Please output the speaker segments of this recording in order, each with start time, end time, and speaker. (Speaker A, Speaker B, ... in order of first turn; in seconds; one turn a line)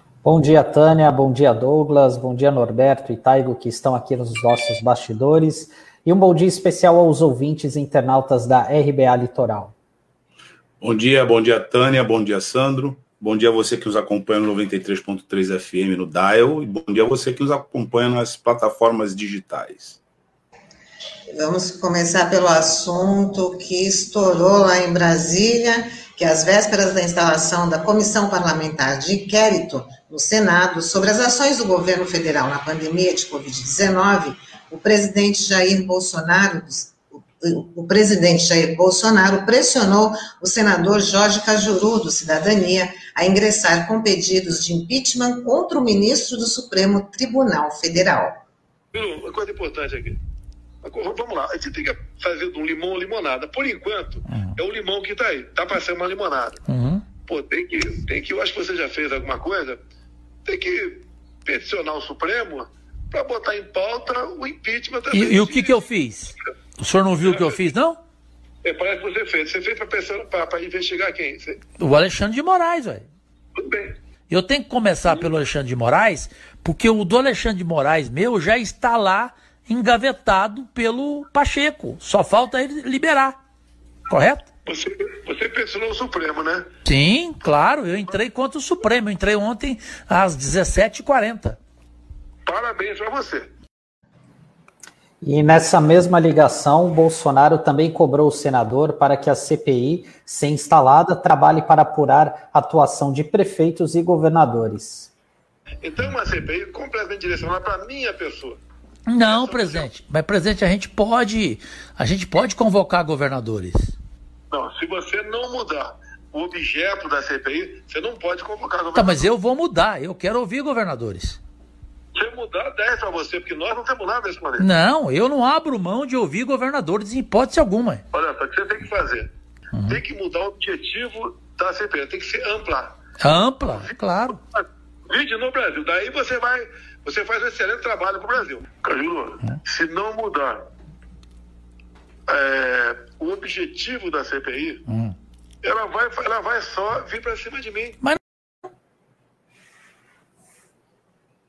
Speaker A: 0.2-9.7
Speaker B: 10.8-20.0
Speaker C: 21.3-48.4
Speaker D: 48.9-50.2
Speaker D: 50.8-56.6
Speaker E: 56.7-57.0
Speaker D: 57.2-59.8
Speaker D: 60.4-65.8
Speaker E: 65.1-68.0
Speaker D: 67.2-67.6
Speaker D: 68.6-71.6
Speaker E: 71.8-73.1
Speaker D: 73.6-74.0
Speaker E: 74.3-83.4
Speaker E: 84.1-84.5
Speaker D: 84.7-86.7
Speaker E: 86.8-91.6
Speaker D: 92.5-93.5
Speaker A: 95.2-105.1
Speaker D: 105.8-108.6
Speaker E: 109.1-113.9
Speaker D: 109.2-109.9
Speaker D: 114.5-119.3
Speaker E: 118.9-121.4
Speaker D: 122.1-124.7
Speaker E: 124.6-128.0
Speaker D: 128.1-129.3
Speaker D: 129.8-133.0
Speaker E: 133.2-134.4
Speaker D: 133.7-140.7
Speaker D: 142.3-144.8
Speaker E: 144.9-145.1
Speaker D: 145.6-148.0